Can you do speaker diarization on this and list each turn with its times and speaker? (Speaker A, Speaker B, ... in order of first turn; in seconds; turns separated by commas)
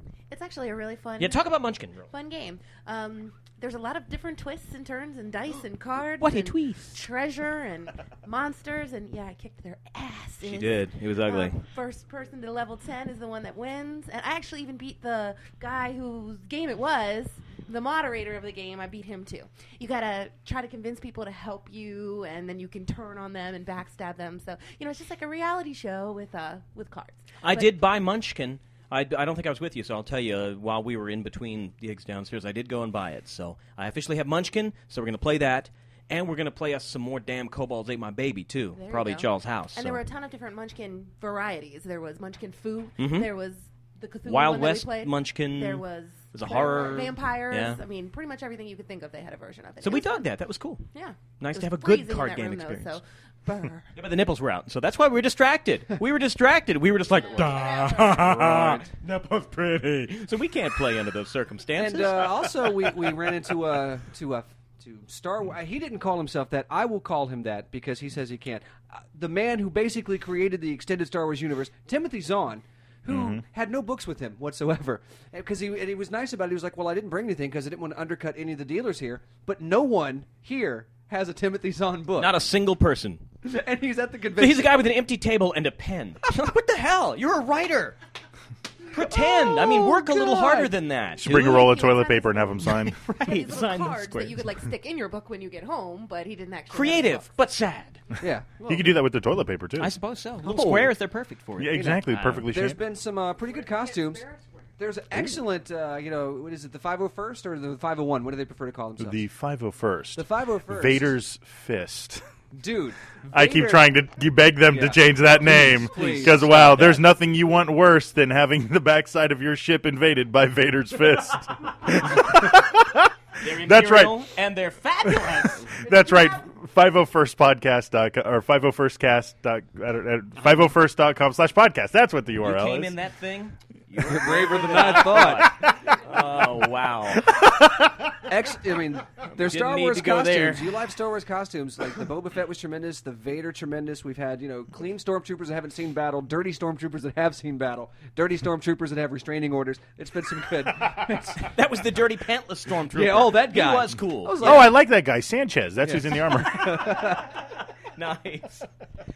Speaker A: 0.3-1.4, Speaker B: 1.2-2.1, Speaker A: 2.1-27.7, Speaker B: 6.2-7.0, Speaker B: 10.4-11.6, Speaker B: 27.4-40.0, Speaker A: 38.8-50.3, Speaker B: 43.0-43.3, Speaker B: 44.2-47.8, Speaker B: 49.8-50.9, Speaker A: 50.9-53.8, Speaker B: 51.4-53.0, Speaker B: 54.0-63.0, Speaker A: 57.3-58.2, Speaker C: 57.6-58.9, Speaker C: 61.8-82.3, Speaker D: 73.1-73.4, Speaker B: 82.2-83.2, Speaker C: 83.4-84.8, Speaker B: 84.3-88.0, Speaker B: 88.9-91.7, Speaker C: 89.0-90.7, Speaker D: 91.2-93.0, Speaker A: 91.3-97.3, Speaker B: 92.9-94.4, Speaker B: 96.7-98.0, Speaker C: 98.2-99.0, Speaker D: 98.7-99.9, Speaker B: 99.8-102.5, Speaker C: 100.4-100.9, Speaker D: 101.6-102.8, Speaker C: 101.7-104.2, Speaker C: 104.8-109.2, Speaker D: 109.0-112.2, Speaker C: 110.2-111.1, Speaker C: 112.5-113.9, Speaker D: 113.3-124.2, Speaker C: 114.7-117.0, Speaker B: 115.9-117.0, Speaker B: 123.4-125.7, Speaker D: 125.1-132.9, Speaker B: 132.4-137.3, Speaker C: 134.0-135.6, Speaker C: 138.2-151.5, Speaker B: 139.3-140.7, Speaker B: 151.4-154.7, Speaker C: 152.9-154.8, Speaker D: 154.4-157.0, Speaker C: 155.8-157.4, Speaker B: 156.8-158.7